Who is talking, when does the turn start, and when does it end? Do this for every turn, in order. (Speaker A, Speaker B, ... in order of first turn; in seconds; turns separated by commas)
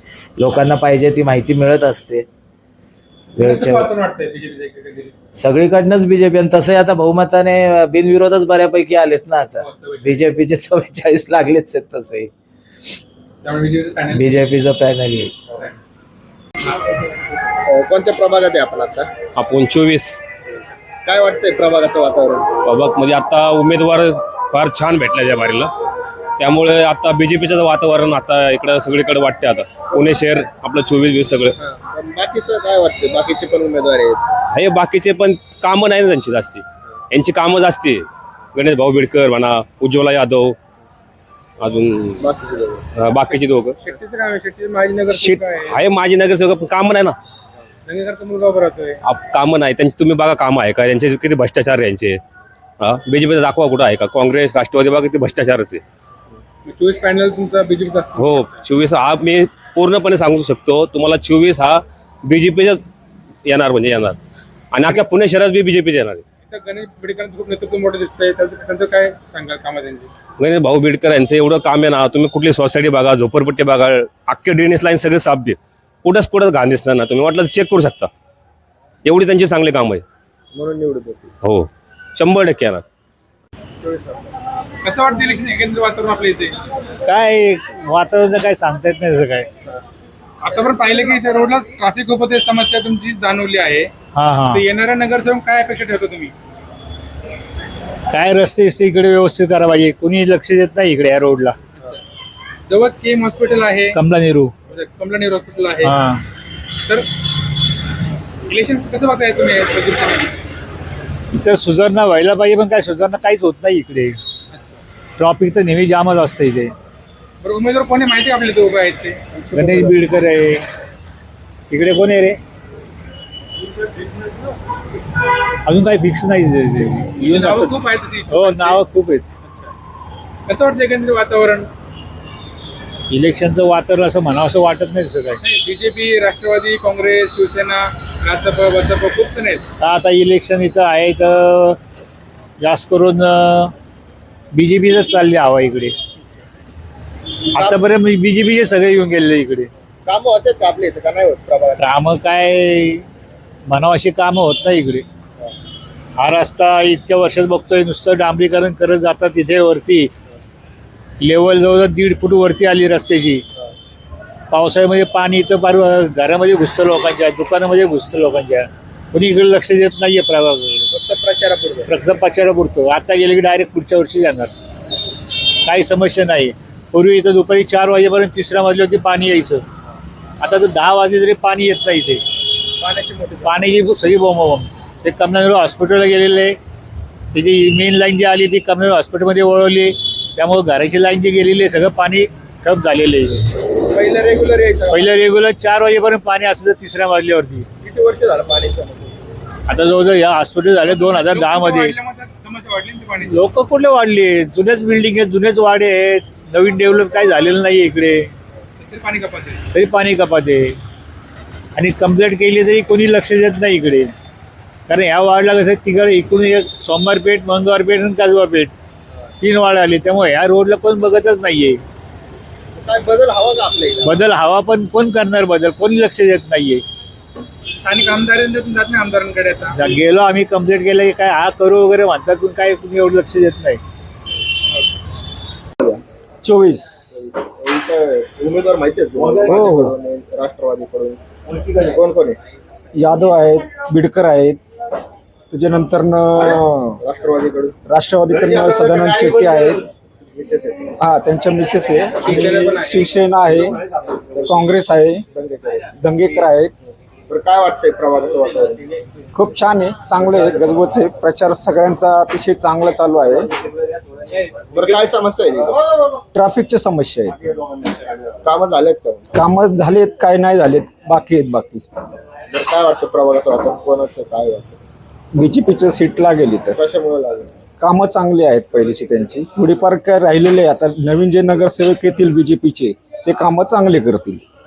Speaker A: 0.4-2.2, Speaker A: 3.4-3.9, Speaker B: 3.4-5.1, Speaker A: 5.4-12.3, Speaker B: 9.6-10.1, Speaker B: 13.4-14.4, Speaker A: 14.1-15.3, Speaker C: 17.7-19.1, Speaker D: 19.4-20.2, Speaker C: 21.0-22.4, Speaker D: 22.6-25.7, Speaker D: 26.4-31.6, Speaker C: 31.6-34.2, Speaker D: 34.5-40.5, Speaker D: 41.6-42.2, Speaker C: 42.2-42.8, Speaker D: 43.0-43.8, Speaker B: 43.3-45.8, Speaker D: 45.1-47.1, Speaker B: 47.9-49.0, Speaker D: 49.0-52.2, Speaker D: 52.8-55.8, Speaker B: 56.6-58.5, Speaker D: 58.2-62.8, Speaker D: 63.4-64.2, Speaker D: 64.7-66.2, Speaker B: 66.4-70.1, Speaker D: 70.4-78.1, Speaker D: 79.0-80.0, Speaker C: 80.5-81.3, Speaker D: 81.4-82.8, Speaker C: 83.8-84.2, Speaker B: 84.8-86.6, Speaker E: 87.0-89.5, Speaker B: 90.4-93.9, Speaker E: 94.1-94.6, Speaker B: 94.5-96.3, Speaker E: 98.1-101.5, Speaker B: 102.7-104.0, Speaker E: 103.9-104.5, Speaker B: 104.7-106.0, Speaker E: 105.8-106.2, Speaker B: 108.5-110.3, Speaker E: 111.3-114.2, Speaker B: 114.5-114.8, Speaker E: 115.2-116.7, Speaker B: 117.4-119.3, Speaker C: 119.5-119.9, Speaker E: 119.5-120.6, Speaker E: 121.7-122.4, Speaker E: 125.7-129.2, Speaker B: 127.2-128.8, Speaker B: 129.4-129.7, Speaker B: 130.5-131.7, Speaker E: 133.1-135.4, Speaker B: 135.4-139.6, Speaker E: 139.8-141.8, Speaker E: 142.6-143.7, Speaker E: 144.5-145.9, Speaker E: 147.5-149.7, Speaker C: 147.5-147.8, Speaker C: 150.1-151.8, Speaker E: 151.8-153.0, Speaker E: 153.7-155.0, Speaker E: 156.2-160.1, Speaker E: 161.2-163.4, Speaker E: 164.5-170.9, Speaker C: 170.9-172.0, Speaker E: 171.9-174.5, Speaker E: 175.6-179.6, Speaker E: 180.4-182.2, Speaker C: 182.8-183.8, Speaker E: 183.4-186.6, Speaker E: 187.3-193.4, Speaker C: 193.8-195.2, Speaker E: 194.9-197.7, Speaker C: 197.8-199.2, Speaker E: 199.7-201.9, Speaker B: 200.9-203.3, Speaker E: 203.2-208.3, Speaker B: 208.8-209.6, Speaker E: 209.7-210.8, Speaker E: 211.8-214.1, Speaker E: 214.9-218.7, Speaker E: 219.4-221.8, Speaker C: 222.7-224.2, Speaker E: 224.0-226.8, Speaker B: 227.8-229.9, Speaker E: 229.7-233.8, Speaker F: 236.4-237.3, Speaker C: 237.1-241.2, Speaker F: 239.4-239.9, Speaker C: 241.8-242.4, Speaker F: 242.9-244.6, Speaker F: 245.5-247.0, Speaker C: 246.4-247.7, Speaker F: 247.8-249.8, Speaker C: 248.3-249.8, Speaker C: 250.3-250.9, Speaker F: 251.0-253.8, Speaker B: 252.2-253.0, Speaker F: 254.5-255.2, Speaker C: 255.3-255.9, Speaker F: 256.0-256.7, Speaker C: 257.3-258.8, Speaker F: 259.3-263.5, Speaker C: 264.7-265.7, Speaker F: 266.3-267.5, Speaker C: 268.4-269.3, Speaker F: 269.3-271.9, Speaker C: 272.5-274.8, Speaker F: 275.3-276.8, Speaker C: 276.8-277.5, Speaker F: 277.8-284.4